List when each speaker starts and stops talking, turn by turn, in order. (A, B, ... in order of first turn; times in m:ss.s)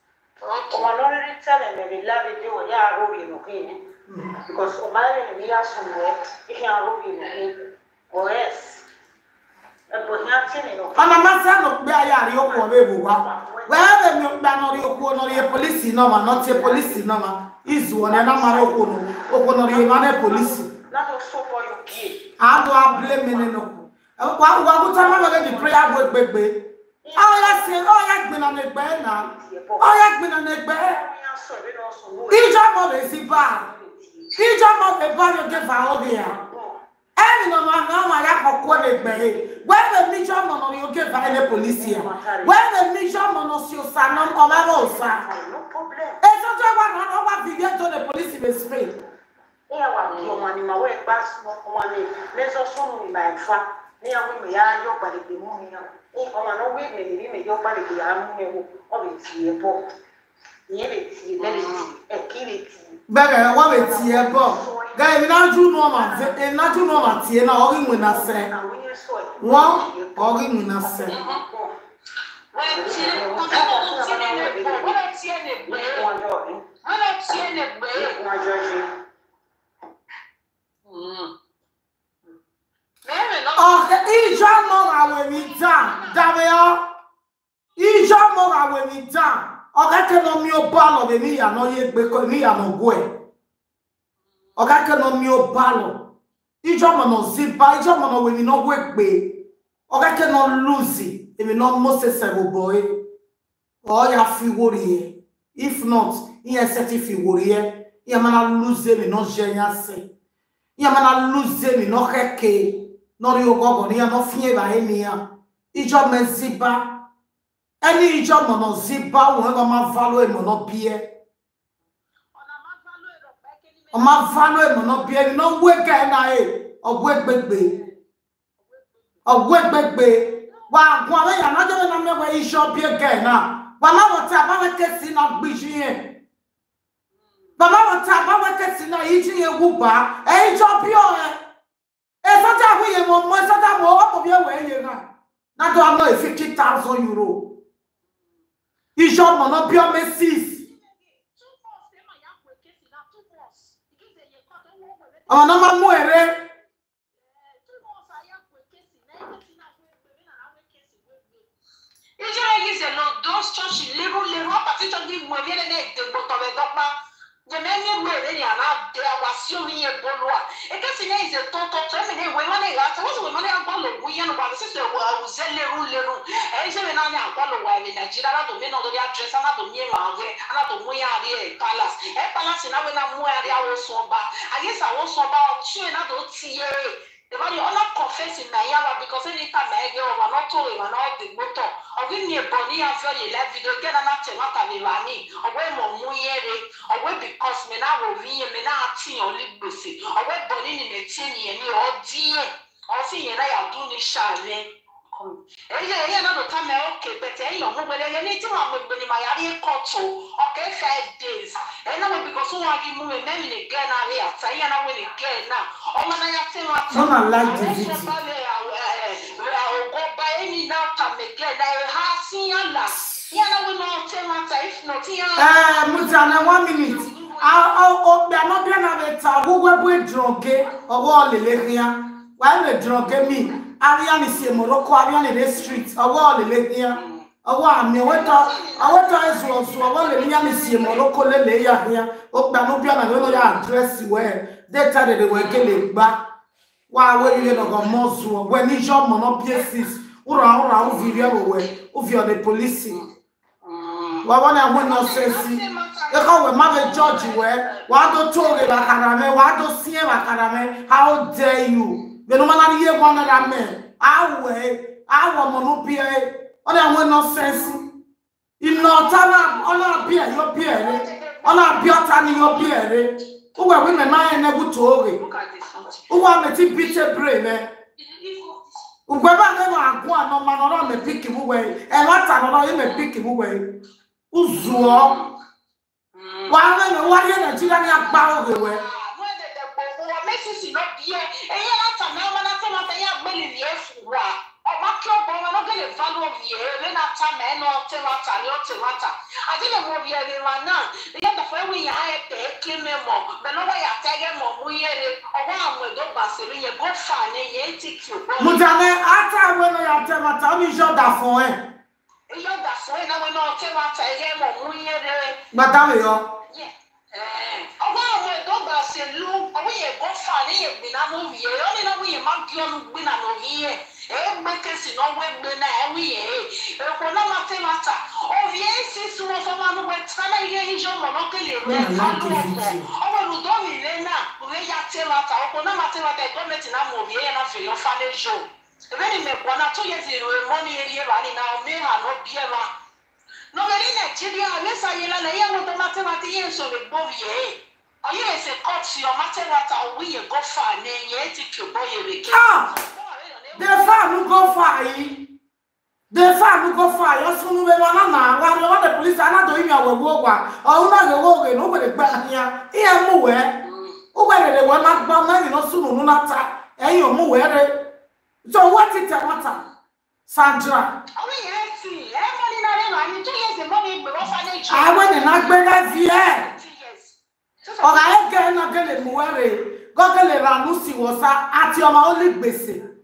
0:00.4-0:00.9 A
0:00.7-0:03.8 B
0:04.1-0:04.3 C
0:04.4-0:07.6 B
0:08.1-0:08.8 B
0:09.9-0:11.3 B
0:10.9-0:20.7 C
0:12.2-0:17.1 B
0:18.0-0:23.6 B
0:22.4-0:31.0 C
0:24.7-0:26.2 B
0:27.0-0:30.0 B
0:30.7-0:34.5 B
0:32.3-0:33.7 C
0:34.4-0:36.4 C
0:35.2-0:36.8 B
0:37.2-0:45.2 C
0:38.6-0:39.6 B
0:41.2-0:42.6 B
0:44.0-0:46.2 B
0:46.2-0:49.0 C
0:49.7-0:59.8 B
0:50.0-0:50.4 A
1:00.7-1:03.0 B
1:01.4-1:02.0 A
1:03.1-1:08.5 C
1:03.5-1:11.7 B
1:09.4-1:11.2 C
1:11.1-1:11.4 A
1:12.5-1:16.1 A
1:12.6-1:15.1 B
1:15.6-1:16.6 B
1:16.8-1:18.2 A
1:17.9-1:18.9 B
1:20.9-1:21.3 A
1:23.0-1:26.2 A
1:23.6-1:26.8 C
1:27.8-1:33.2 C
1:34.6-1:36.1 C
1:36.6-1:43.0 C
1:43.8-1:50.1 C
1:50.8-1:57.0 C
1:57.8-2:01.1 C
2:02.3-2:04.8 A
2:03.9-2:07.8 C
2:07.5-2:08.0 A
2:08.6-2:09.0 A
2:09.2-2:16.2 C
2:10.4-2:11.0 A
2:17.2-2:17.5 A
2:17.6-2:21.4 C
2:22.2-2:27.6 C
2:29.0-2:30.6 C
2:30.6-2:36.0 A
2:35.3-2:36.5 C
2:37.1-2:41.5 A
2:42.2-2:46.9 A
2:47.5-3:47.7 A
3:36.9-3:38.1 C
3:45.4-4:06.2 C
3:56.9-3:57.2 A
3:58.0-4:01.0 A
4:03.1-4:03.6 A
4:05.3-4:05.8 A
4:06.9-4:13.0 C
4:07.1-4:07.8 A
4:10.8-4:11.5 A
4:13.6-4:19.0 A
4:14.2-4:27.9 C
4:23.1-4:23.6 A
4:27.5-4:27.8 A
4:28.6-4:35.2 C
4:28.7-4:32.8 A
4:33.6-4:34.2 A
4:35.1-4:37.0 A
4:36.1-4:37.8 C
4:38.0-4:38.6 A
4:39.1-4:43.8 C
4:44.3-4:45.1 C
4:44.6-4:45.3 A
4:46.1-5:08.7 A
4:46.5-4:48.8 C
5:08.4-5:11.7 C
5:12.3-5:15.4 A
5:15.5-5:16.4 C
5:16.5-5:42.7 A
5:31.6-5:32.9 C
5:43.5-5:54.2 A
5:52.3-5:52.7 C
5:53.6-5:55.3 C
5:56.1-6:03.6 C
6:03.6-6:04.0 A
6:04.1-6:07.9 C
6:08.4-6:09.6 C
6:10.3-6:11.0 C
6:11.2-6:18.4 A
6:14.7-6:16.5 C
6:17.8-6:22.8 C